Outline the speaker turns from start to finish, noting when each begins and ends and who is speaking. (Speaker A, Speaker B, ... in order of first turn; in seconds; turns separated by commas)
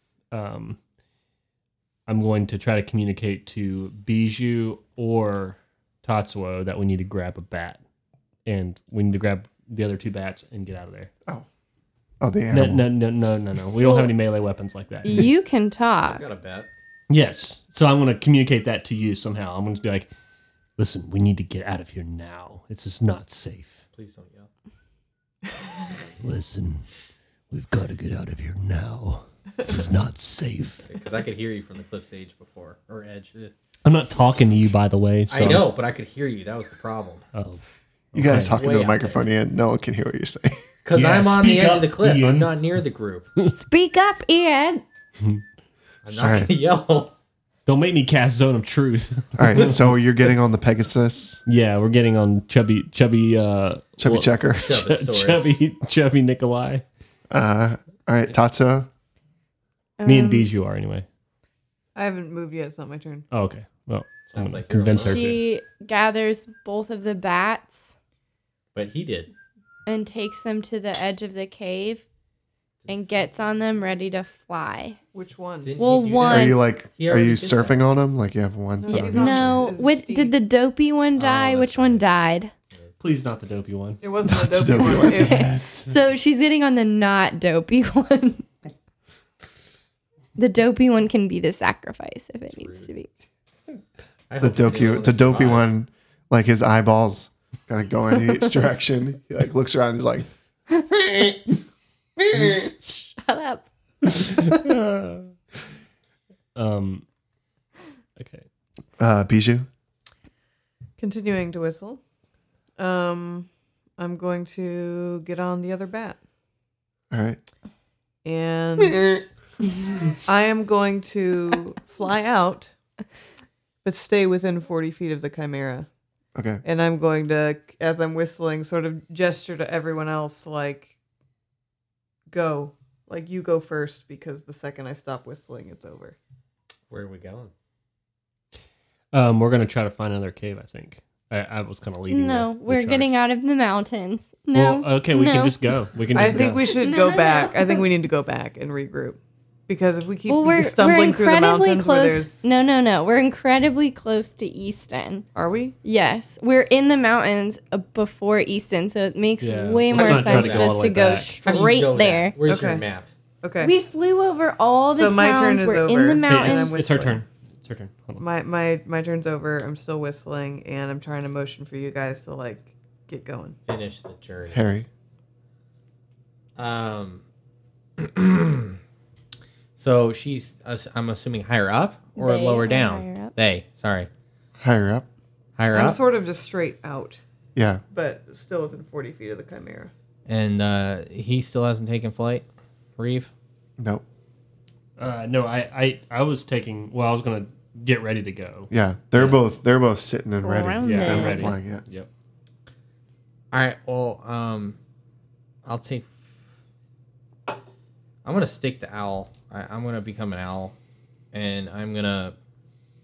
Speaker A: 0.3-0.8, Speaker A: 2.1-7.8, Speaker A: 8.5-11.1, Speaker B: 12.2-12.9, Speaker A: 12.5-15.3, Speaker C: 13.8-14.1, Speaker C: 15.0-16.2, Speaker D: 16.0-16.7, Speaker A: 17.1-20.1, Speaker A: 20.8-23.8, Speaker D: 23.9-24.5, Speaker A: 26.2-26.9, Speaker A: 27.5-30.9, Speaker D: 30.9-33.5, Speaker A: 33.9-35.7, Speaker D: 35.3-37.3, Speaker A: 37.4-38.7, Speaker B: 38.1-40.7, Speaker D: 38.2-39.2, Speaker D: 40.9-43.3, Speaker A: 40.9-42.6, Speaker C: 43.5-44.8, Speaker D: 46.0-47.1, Speaker B: 46.1-46.5, Speaker A: 47.7-50.0, Speaker B: 49.4-51.4, Speaker A: 51.5-56.9, Speaker B: 54.0-54.8, Speaker D: 54.6-55.6, Speaker B: 57.3-58.9, Speaker C: 60.0-60.5, Speaker A: 60.0-61.1, Speaker E: 62.0-63.3, Speaker A: 63.3-65.4, Speaker D: 64.3-65.4, Speaker C: 65.0-68.0, Speaker D: 68.8-69.3, Speaker C: 69.9-72.1, Speaker C: 72.9-75.0, Speaker E: 75.1-75.7, Speaker D: 75.6-77.8, Speaker C: 75.8-76.6, Speaker B: 76.3-79.5, Speaker E: 78.8-80.3, Speaker C: 78.9-82.5, Speaker D: 81.2-82.0, Speaker A: 83.0-84.2, Speaker E: 84.0-85.7, Speaker B: 84.3-85.6, Speaker A: 84.8-85.9, Speaker C: 85.0-88.5, Speaker C: 90.4-93.1, Speaker D: 92.5-92.9, Speaker D: 94.3-95.8, Speaker B: 94.4-100.3, Speaker C: 102.3-104.6, Speaker A: 104.2-105.3, Speaker A: 106.5-107.0, Speaker A: 108.2-108.5, Speaker B: 109.0-109.7, Speaker E: 111.0-112.0, Speaker E: 112.8-116.2, Speaker B: 117.1-117.4, Speaker E: 118.2-119.2, Speaker B: 118.8-119.0, Speaker E: 120.2-122.7, Speaker E: 123.8-125.9, Speaker B: 126.3-126.6, Speaker E: 126.6-130.9, Speaker E: 132.3-136.2, Speaker D: 136.9-137.5, Speaker A: 139.1-143.1, Speaker C: 142.1-145.6, Speaker A: 144.5-146.7, Speaker E: 146.1-152.5, Speaker C: 146.2-147.9, Speaker C: 150.3-155.3, Speaker E: 155.3-155.8, Speaker C: 155.8-162.4, Speaker A: 159.4-161.3, Speaker D: 159.9-160.8, Speaker D: 161.4-163.1, Speaker E: 162.4-162.8, Speaker E: 163.4-163.7, Speaker C: 163.6-166.8, Speaker E: 164.9-167.2, Speaker A: 166.3-168.2, Speaker E: 168.2-173.6, Speaker D: 173.7-174.7, Speaker B: 174.5-174.9, Speaker D: 176.6-177.2, Speaker D: 178.0-178.8, Speaker D: 179.8-184.1, Speaker C: 182.2-183.3, Speaker B: 184.6-185.1, Speaker D: 185.6-186.0, Speaker E: 185.7-187.2, Speaker B: 187.6-187.8, Speaker E: 187.9-189.9, Speaker D: 190.3-192.4, Speaker D: 193.0-193.3, Speaker B: 193.8-194.1, Speaker A: 195.0-199.4, Speaker B: 198.7-201.8, Speaker C: 200.4-201.6, Speaker A: 200.8-202.1, Speaker D: 203.5-204.8, Speaker D: 205.6-206.3, Speaker D: 208.2-210.8, Speaker D: 211.3-212.3